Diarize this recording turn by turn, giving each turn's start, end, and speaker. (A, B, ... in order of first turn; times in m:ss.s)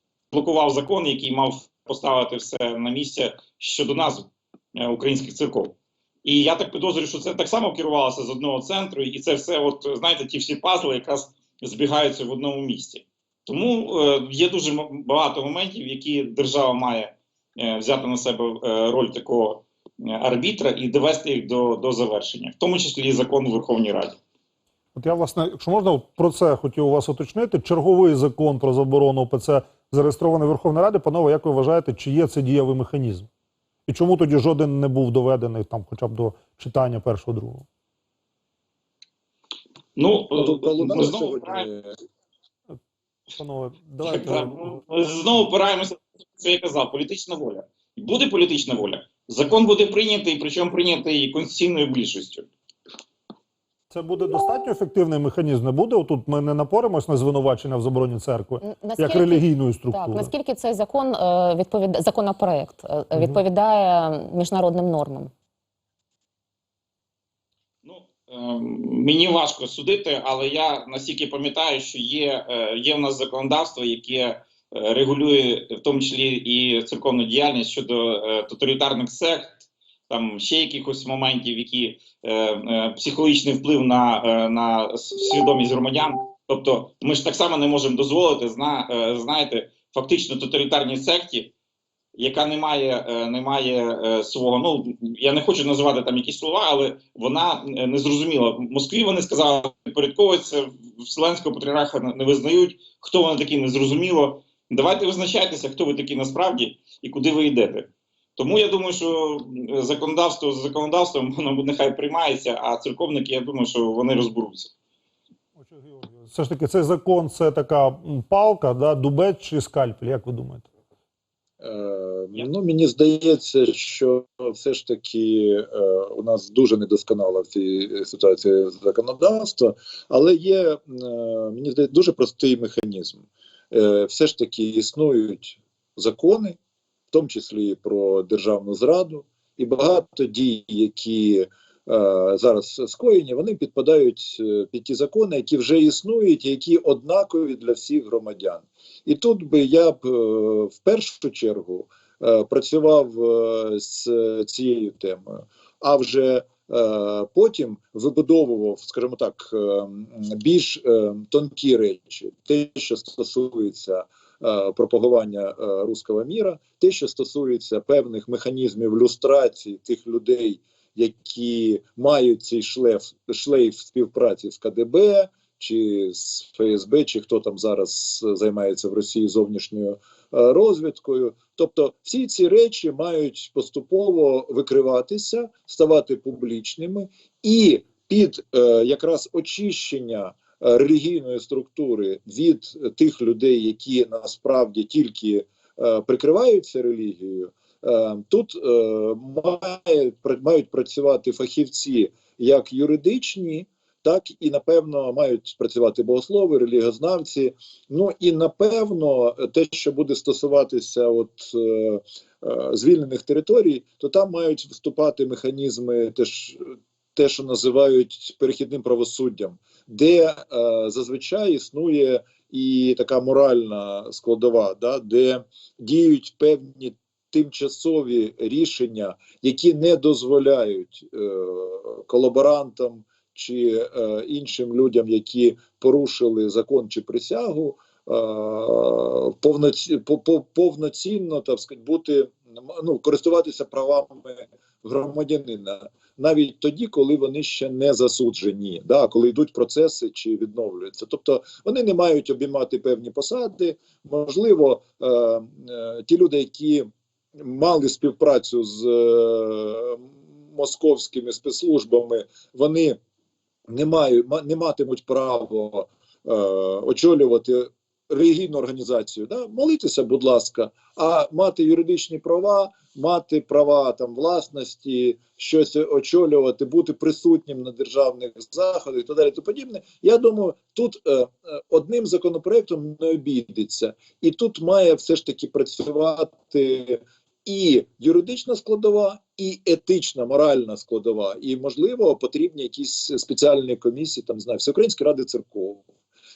0:00.3-0:24.2 A
0:25.0-0:33.3 B
0:33.9-0:37.6 B
0:40.0-0:41.7 A
0:40.3-0:41.9 C
0:43.4-0:44.8 B
0:44.0-0:52.5 A
0:53.9-1:00.3 B
0:58.6-1:05.3 D
1:03.1-1:03.4 B
1:07.8-1:31.5 A
1:32.2-1:54.7 A
1:55.6-2:00.7 B
2:01.6-2:16.6 C
2:17.1-4:23.0 C
4:23.7-4:55.8 C